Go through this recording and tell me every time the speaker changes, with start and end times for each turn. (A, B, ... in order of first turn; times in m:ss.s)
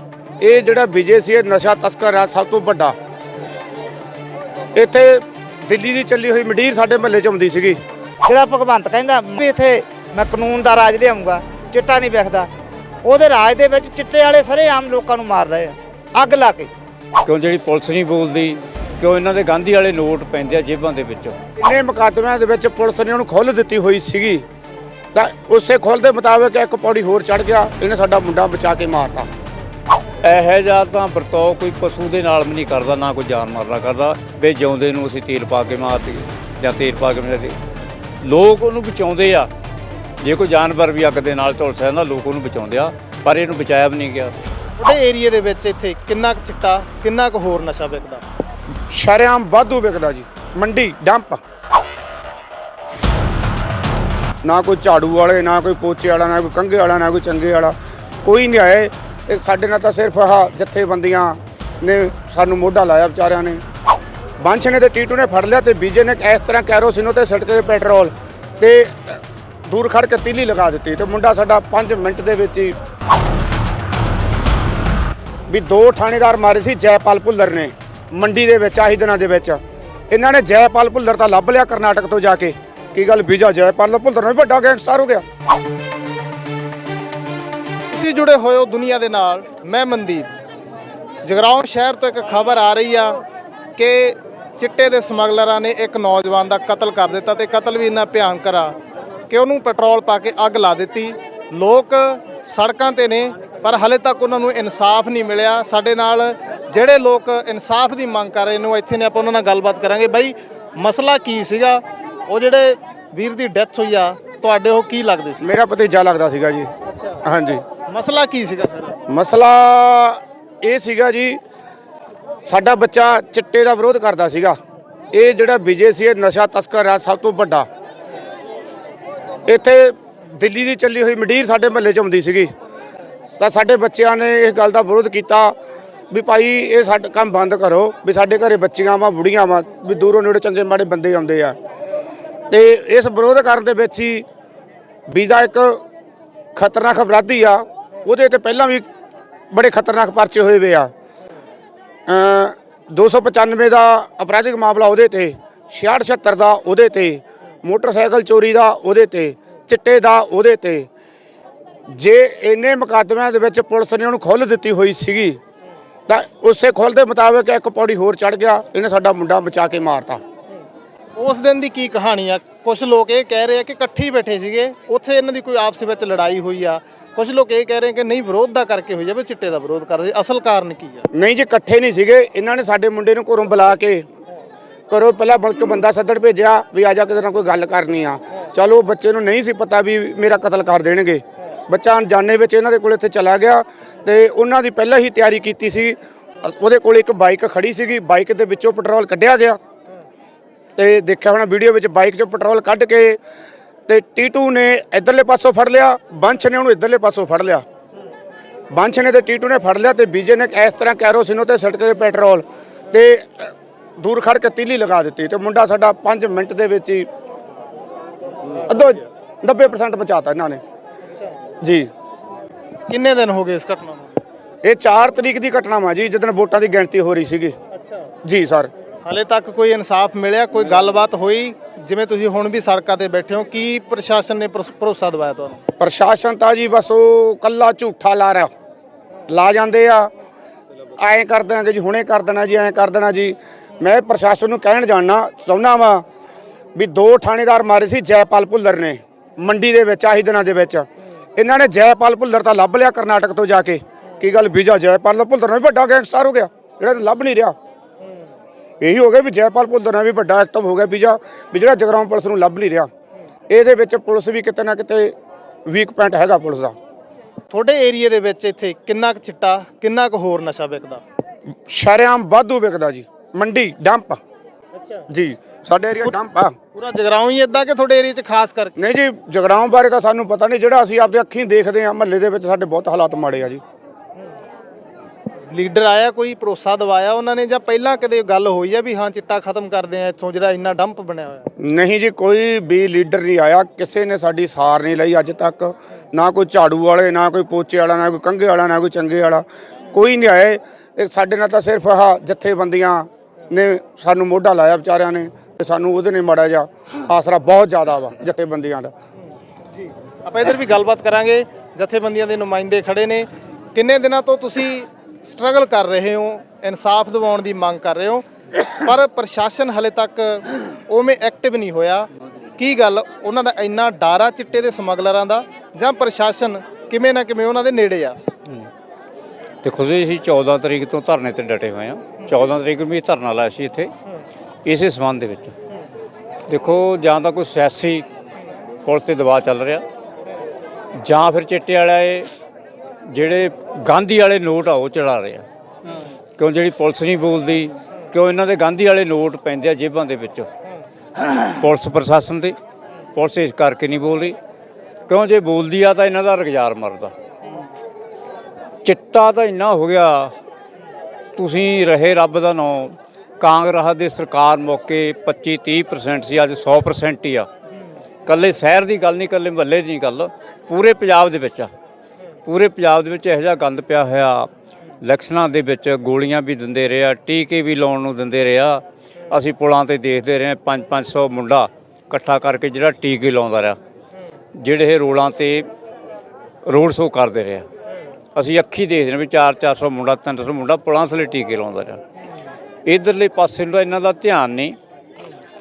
0:00.4-0:02.9 A
0:04.7-0:07.8 A
0:08.2-0:12.5 B
0:13.0-0:16.7 B
0:17.2-0:21.4 C
0:21.6-0:24.4 A
0:25.1-0:29.3 A
0:30.2-0:37.6 C
0:38.2-0:39.5 C
0:40.2-0:44.3 C
0:44.8-0:48.2 D
0:48.9-0:51.4 A
0:54.4-1:03.6 A
1:04.4-1:12.8 A
1:15.5-1:25.2 A
1:27.9-1:30.3 D
1:31.2-1:33.2 D
1:33.8-1:38.7 D
1:39.3-1:55.4 D
1:55.4-1:56.7 A
1:57.2-1:57.6 A
1:57.9-1:59.0 D
1:59.1-2:01.4 A
2:02.4-2:04.6 A
2:05.1-2:07.7 A
2:09.5-2:12.5 A
2:13.4-2:15.5 A
2:16.1-2:21.6 A
2:22.5-2:24.2 A
2:25.1-2:25.8 A
2:26.5-2:28.9 A
2:29.5-2:30.9 A
2:32.1-2:40.9 A
2:41.9-2:45.4 A
2:46.1-2:50.2 A
2:51.2-3:01.1 D
3:01.1-3:04.0 A
3:04.9-3:19.6 A
3:20.8-3:23.2 A
3:23.9-3:27.6 A
3:28.7-3:37.1 A
3:38.6-3:40.6 A
3:41.6-3:41.9 A
3:42.9-3:44.2 D
3:44.6-3:47.6 A
3:48.2-3:48.7 A
3:49.0-3:55.6 D
3:55.8-3:58.5 A
3:59.3-4:00.1 A
4:01.0-4:06.0 A
4:06.7-4:17.5 A
4:18.8-4:22.9 A
4:23.5-4:25.1 A
4:25.7-4:26.8 A
4:27.5-4:31.0 D
4:31.7-4:34.2 A
4:35.1-4:36.5 A
4:36.7-4:38.7 D
4:38.8-4:43.6 A
4:45.5-4:51.5 D
4:51.6-5:08.9 A
5:09.8-5:28.2 D
5:29.6-5:33.9 C
5:34.6-5:35.5 C
5:36.5-5:38.1 C
5:38.8-5:39.8 C
5:41.0-5:42.3 C
5:43.0-5:45.4 C
5:46.4-5:50.5 C
5:51.2-5:52.6 C
5:53.1-5:54.4 C
5:55.1-5:57.1 C
5:58.8-6:00.3 C
6:01.4-6:07.5 C
6:08.2-6:11.7 C
6:12.4-6:14.5 C
6:15.0-6:23.8 C
6:24.5-6:25.7 C
6:26.6-6:27.6 C
6:28.3-6:32.0 C
6:32.8-6:34.8 C